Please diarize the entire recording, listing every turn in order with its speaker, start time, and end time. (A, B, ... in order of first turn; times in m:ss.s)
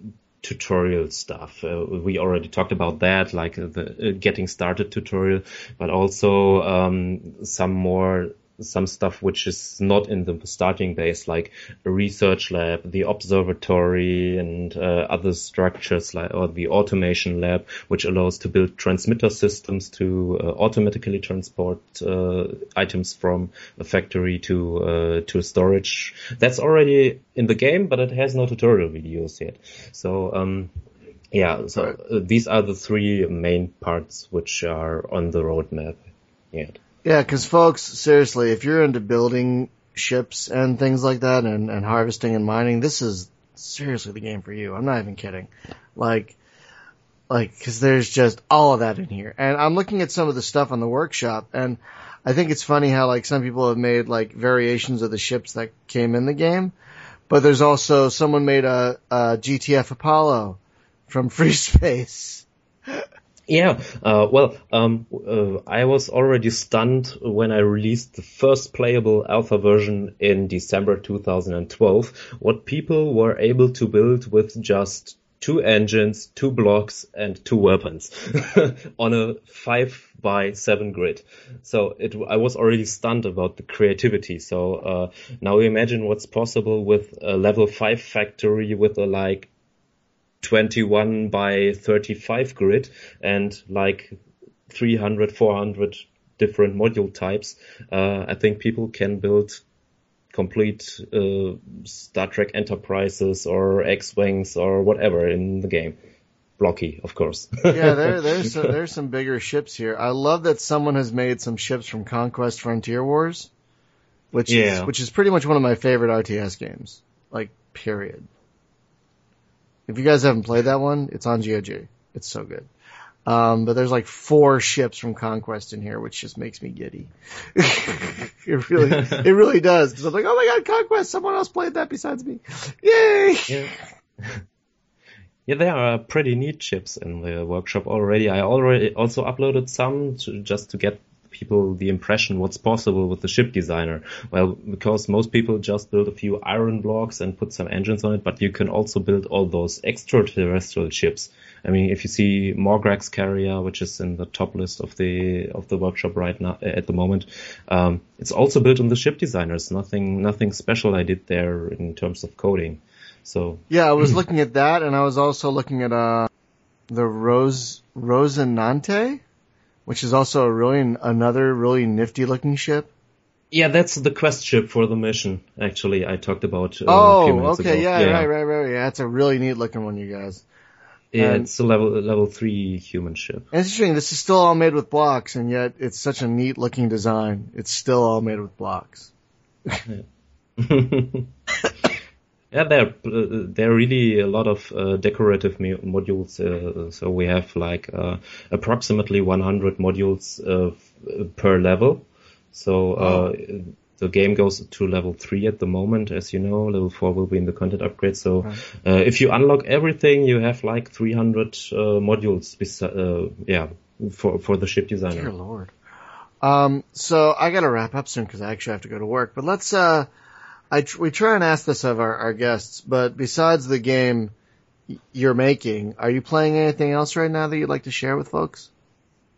0:00.4-0:30.7 A
0:31.3-0:36.0 A
0:36.5-0:36.8 A
0:37.0-0:46.4 B
0:47.3-0:56.7 B
0:57.3-1:03.0 B
1:03.5-1:29.5 A
1:30.4-1:34.2 A
1:34.7-1:39.6 A
1:40.3-1:46.0 A
1:46.6-1:48.6 A
1:47.7-1:53.5 B
1:54.3-1:58.3 B
1:54.5-1:54.9 A
1:59.9-2:02.7 B
2:03.3-2:13.7 B
2:08.8-2:09.2 A
2:13.5-2:14.4 A
2:15.5-2:43.6 A
2:43.7-2:46.3 B
2:46.9-2:49.2 B
2:49.9-2:52.9 B
2:53.5-2:58.3 A
2:56.9-3:00.4 B
3:01.1-3:03.5 A
3:01.2-3:01.5 B
3:03.5-3:09.1 B
3:10.6-3:11.3 A
3:12.5-3:35.3 A
3:23.0-3:23.3 B
3:35.1-3:35.7 B
3:36.4-3:40.1 B
3:40.7-3:44.3 B
3:44.9-3:48.7 B